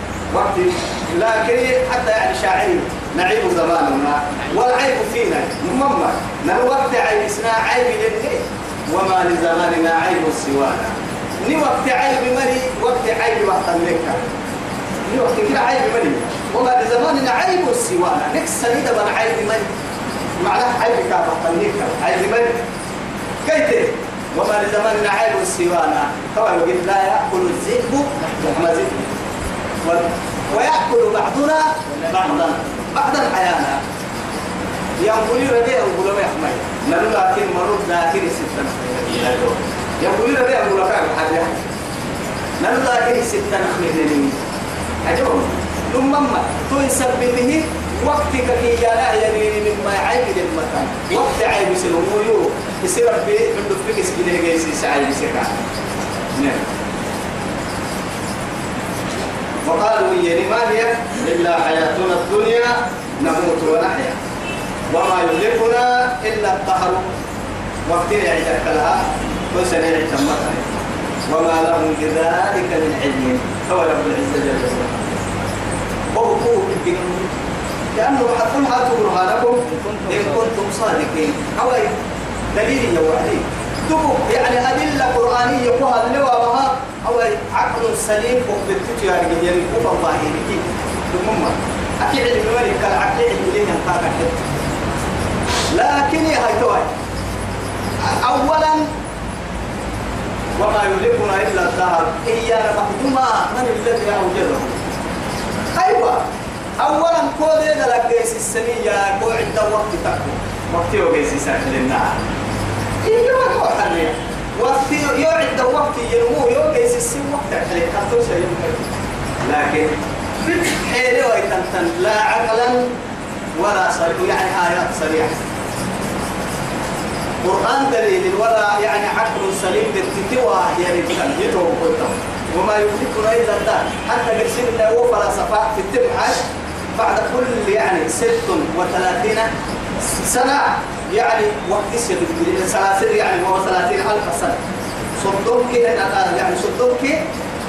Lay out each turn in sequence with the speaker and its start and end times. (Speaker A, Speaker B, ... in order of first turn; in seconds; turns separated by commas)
Speaker A: 0.3-14.2, Speaker A: 15.1-19.7, Speaker A: 20.4-22.7, Speaker A: 23.4-29.0, Speaker A: 29.8-33.8, Speaker A: 35.0-41.7, Speaker A: 42.6-44.4, Speaker A: 45.0-55.6, Speaker A: 56.4-56.7, Speaker A: 59.6-64.2, Speaker A: 64.9-67.1, Speaker A: 67.9-70.7, Speaker A: 71.3-75.0, Speaker A: 76.1-77.3, Speaker A: 77.9-82.0, Speaker A: 82.5-94.5, Speaker A: 95.7-96.9, Speaker A: 98.0-98.9, Speaker A: 100.6-104.8, Speaker A: 105.7-106.3, Speaker A: 106.8-112.2, Speaker A: 113.0-122.9, Speaker A: 123.6-125.4, Speaker A: 127.4-139.5, Speaker A: 140.1-144.6, Speaker A: 145.2-147.3